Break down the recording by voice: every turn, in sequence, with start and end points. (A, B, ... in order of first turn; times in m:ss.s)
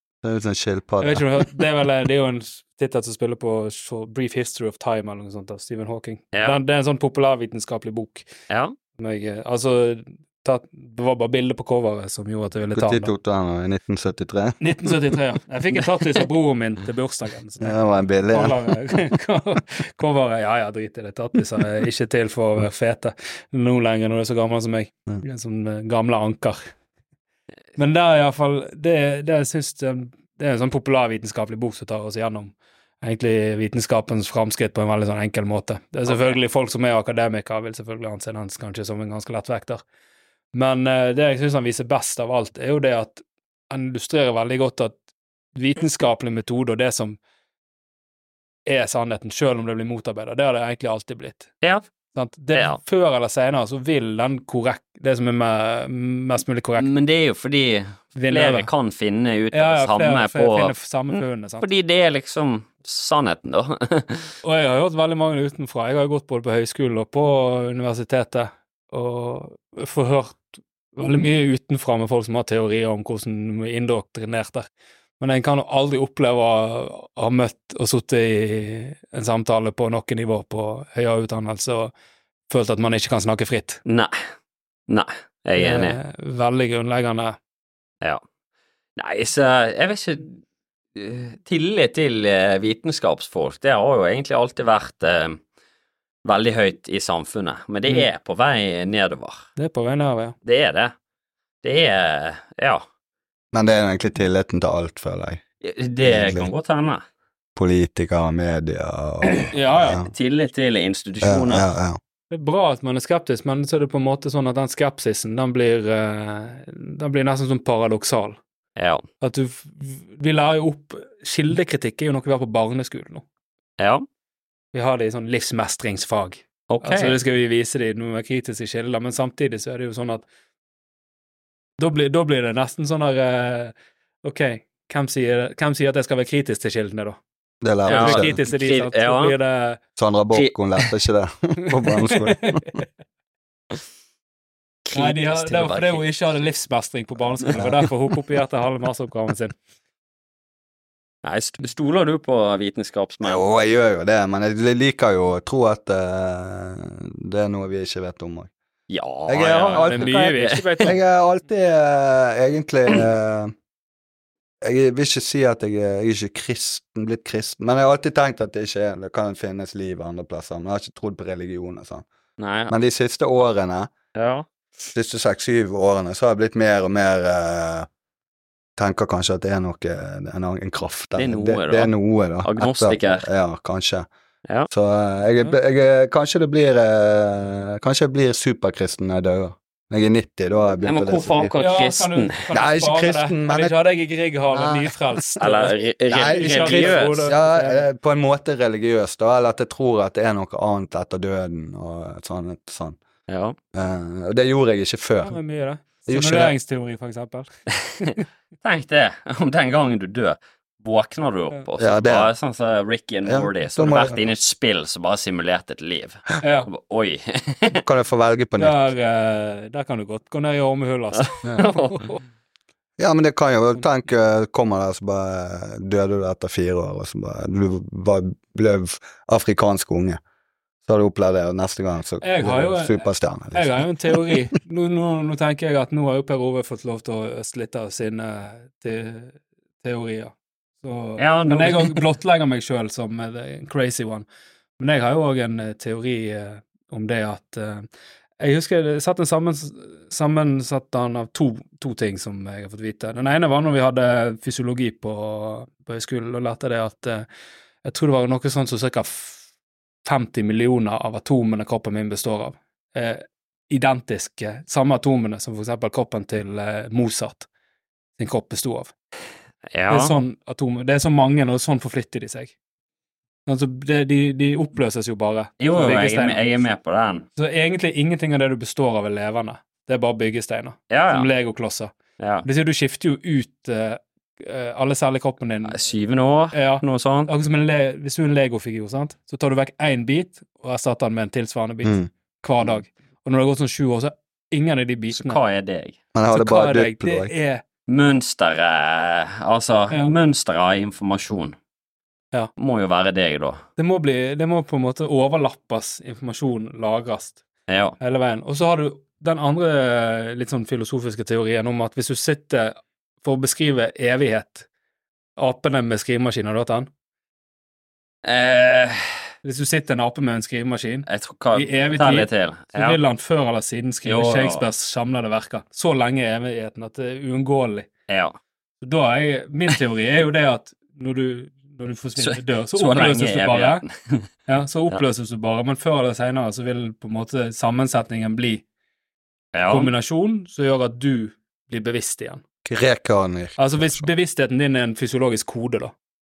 0:00.2-0:01.4 A
0:01.0-0:08.3 B
0:06.3-0:06.6 C
0:08.5-0:08.7 C
0:09.0-0:13.1 B
0:12.7-0:14.9 A
0:14.6-0:26.7 B
0:17.6-0:18.6 A
0:27.8-0:39.8 B
0:36.1-0:36.4 C
0:40.5-0:45.0 B
0:45.5-0:47.2 B
0:48.6-0:51.5 B
0:52.1-0:56.9 B
0:52.5-0:52.8 C
0:56.8-1:04.3 C
0:58.1-0:58.7 B
0:59.5-1:01.7 B
1:04.4-1:14.7 B
1:15.2-1:21.9 B
1:22.5-1:23.8 B
1:23.8-1:24.1 C
1:24.9-1:26.0 C
1:25.6-1:27.4 B
1:29.0-1:30.4 C
1:30.9-1:35.4 C
1:36.2-1:39.4 C
1:39.6-1:40.3 B
1:40.4-1:40.9 C
1:41.6-1:42.8 C
1:43.5-1:45.4 A
1:45.6-1:47.0 C
1:46.0-1:46.5 A
1:47.6-1:50.1 A
1:49.5-1:50.0 B
1:50.0-1:51.6 C
1:51.2-1:52.0 A
1:52.3-1:58.4 B
1:58.8-1:59.0 C
1:59.2-2:03.2 B
2:03.8-2:04.0 C
2:04.7-2:10.2 B
2:06.7-2:07.2 C
2:11.8-2:17.2 B
2:17.6-2:18.3 A
2:17.8-2:19.8 B
2:17.9-2:19.3 C
2:20.0-2:22.5 A
2:20.3-2:20.9 C
2:22.0-2:22.8 B
2:24.8-2:26.2 C
2:24.9-2:29.5 B
2:31.2-2:33.4 C
2:33.2-2:38.5 A
2:38.9-2:40.9 C
2:39.3-2:43.5 A
2:39.7-2:41.0 B
2:44.6-2:52.0 A
2:52.4-2:52.7 C
2:52.7-2:53.9 A
2:54.1-2:54.4 C
2:54.9-2:57.9 A
2:58.8-3:04.1 A
3:01.2-3:01.9 C
3:02.4-3:03.3 C
3:04.7-3:11.5 A
3:10.8-3:12.4 C
3:11.6-3:17.8 B
3:12.5-3:13.7 A
3:14.5-3:15.2 A
3:15.4-3:17.3 C
3:16.1-3:23.0 A
3:23.3-3:23.6 C
3:23.7-3:25.4 A
3:25.2-3:27.5 B
3:26.1-3:26.5 A
3:28.0-3:28.2 B
3:28.6-3:37.8 C
3:31.8-3:32.3 A
3:33.2-3:34.2 A
3:36.4-3:36.7 B
3:37.7-3:38.8 A
3:38.6-3:42.2 B
3:41.1-3:42.1 C
3:43.0-3:50.2 A
3:50.8-3:54.3 A
3:52.2-4:04.2 B
4:01.2-4:02.0 C
4:04.8-4:07.9 B
4:08.4-4:17.2 B
4:17.8-4:19.4 B
4:20.0-4:27.5 B
4:28.2-4:28.9 B
4:29.7-4:30.1 C
4:29.9-4:32.5 B
4:33.4-4:36.6 B
4:35.6-4:37.3 C
4:37.4-4:41.9 B
4:40.9-4:41.3 C
4:42.2-4:42.4 C
4:42.4-4:45.9 B
4:45.7-4:47.3 C
4:46.5-4:55.4 B
4:51.8-4:52.1 A
4:55.1-4:56.0 C
4:56.1-4:57.3 A
4:56.3-4:57.6 B
4:57.9-5:01.6 C
5:02.6-5:03.6 C
5:03.8-5:07.4 B
5:07.7-5:08.0 C
5:08.0-5:14.7 B
5:15.4-5:16.9 B
5:18.2-5:19.1 C
5:19.4-5:27.9 B
5:21.1-5:23.0 C
5:24.0-5:24.6 C
5:28.1-5:28.4 C
5:28.8-5:33.8 B
5:32.2-5:34.3 C
5:34.5-5:38.6 B
5:39.5-5:39.9 C
5:39.7-5:42.4 B
5:42.6-5:44.1 A
5:43.6-5:45.9 B